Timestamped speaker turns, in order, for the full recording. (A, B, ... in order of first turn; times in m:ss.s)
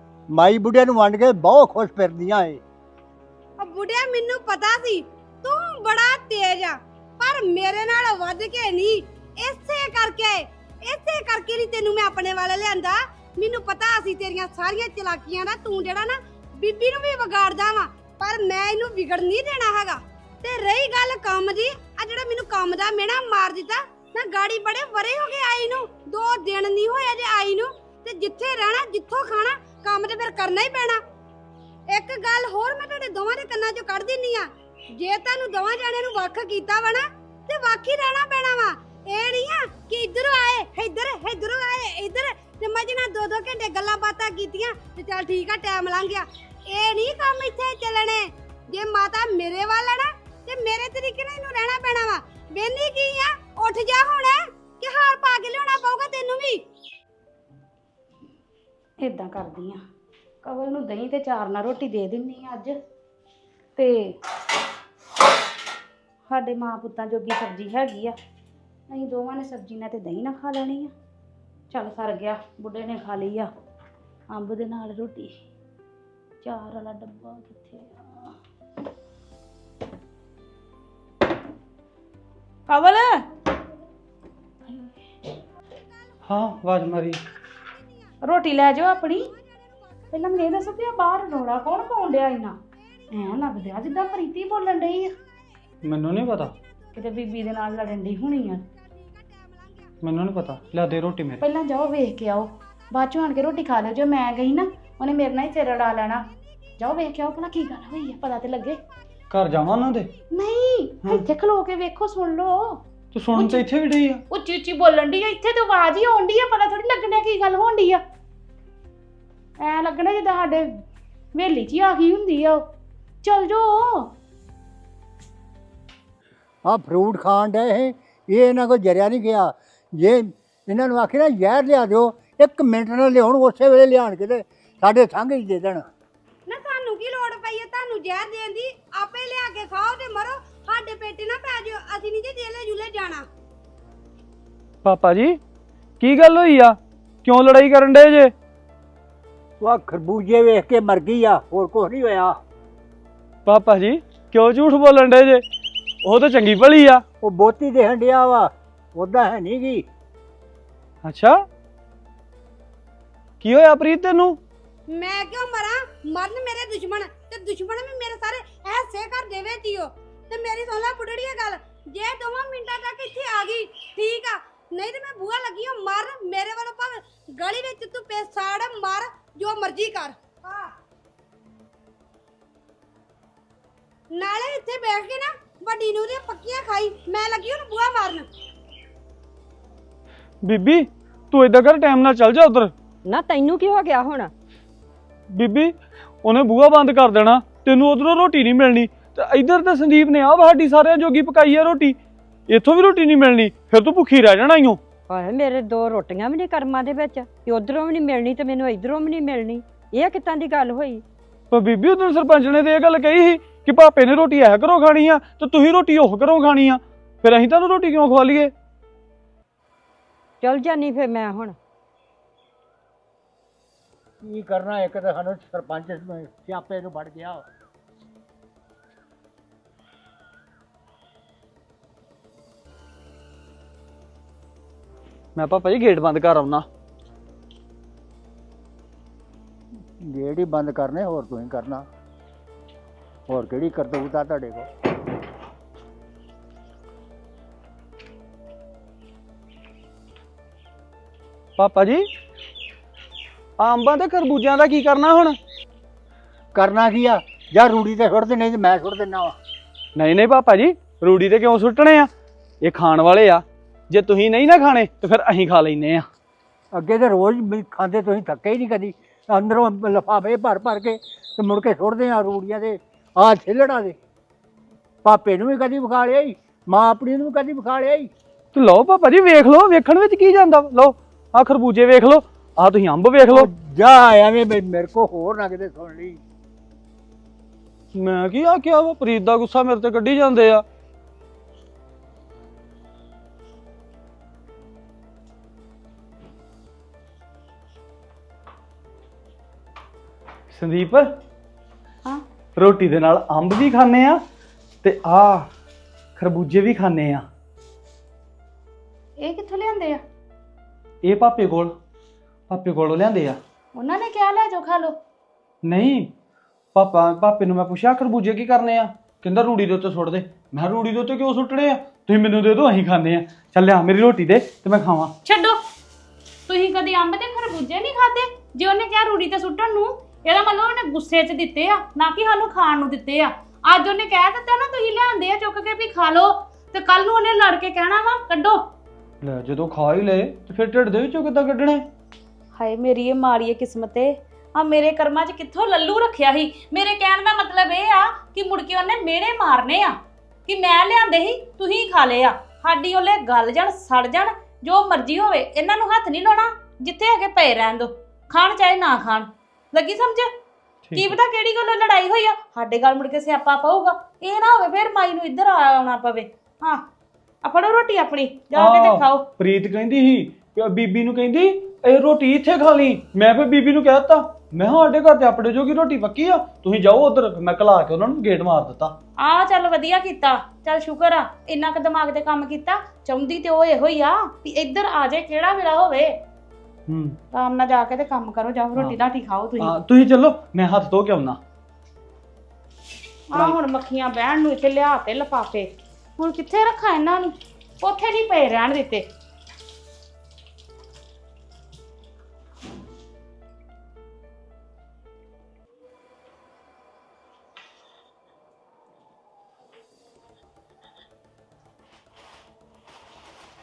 0:00.3-0:02.6 A
0:03.6-0:31.0 B
0:31.9-0:56.6 B
0:59.0-0:59.8 C
1:00.4-1:02.7 C
1:03.8-1:04.1 C
1:06.3-1:08.1 C
1:08.9-1:10.9 C
1:11.7-1:13.5 C
1:14.3-1:15.3 C
1:16.4-1:18.3 C
1:22.7-1:23.2 C
1:26.2-1:27.2 D
1:28.2-1:29.3 C
1:30.1-1:32.6 C
1:33.1-1:35.1 C
1:35.8-1:36.5 D
1:36.9-1:38.7 C
1:40.0-1:41.4 D
1:41.4-1:46.2 C
1:46.8-1:48.8 C
1:49.3-1:50.1 D
1:50.3-1:52.8 C
1:53.1-1:54.2 D
1:53.3-1:53.6 C
1:54.3-1:58.0 C
1:59.6-2:00.7 C
2:01.3-2:02.6 C
2:03.2-2:04.1 C
2:06.6-2:15.8 A
2:16.5-2:23.2 B
2:24.8-2:25.4 D
2:26.0-2:28.3 D
2:29.6-2:32.4 A
2:33.4-2:35.4 D
2:36.0-2:37.0 D
2:37.2-2:39.8 A
2:41.0-2:41.4 D
2:43.4-2:44.4 D
2:44.9-3:00.7 B
3:04.1-3:08.3 B
3:10.4-3:12.7 D
3:13.0-3:14.3 E
3:15.3-3:22.0 D
3:22.5-3:24.8 D
3:25.1-3:31.0 E
3:31.5-3:38.5 D
3:40.4-3:41.6 E
3:44.2-3:47.4 A
3:55.4-3:56.7 D
4:00.0-4:01.8 A
4:03.3-4:04.7 A
4:11.6-4:12.0 D
4:13.6-4:15.4 D
4:16.5-4:19.4 A
4:20.0-4:26.1 D
4:26.7-4:34.0 A
4:35.0-4:38.1 A
4:38.5-4:43.5 D
4:43.3-4:46.2 A
4:47.9-4:50.6 D
5:00.5-5:01.1 D
5:02.6-5:04.2 D
5:04.8-5:05.5 D
5:06.2-5:07.2 D
5:09.2-5:10.0 C
5:11.0-5:11.7 D
5:12.5-5:13.4 D
5:13.7-5:15.0 C
5:15.6-5:16.1 D
5:16.7-5:25.1 D
5:25.2-5:25.6 C
5:26.5-5:38.6 C
5:39.2-5:41.8 D
5:42.6-5:49.9 C
5:50.5-6:00.3 C
6:00.9-6:01.1 D
6:00.9-6:06.8 C
6:07.4-6:09.2 C
6:08.5-6:19.0 D
6:19.2-6:26.1 C
6:26.9-6:27.2 D
6:27.3-6:29.8 C
6:29.6-6:31.4 D
6:33.3-6:39.0 C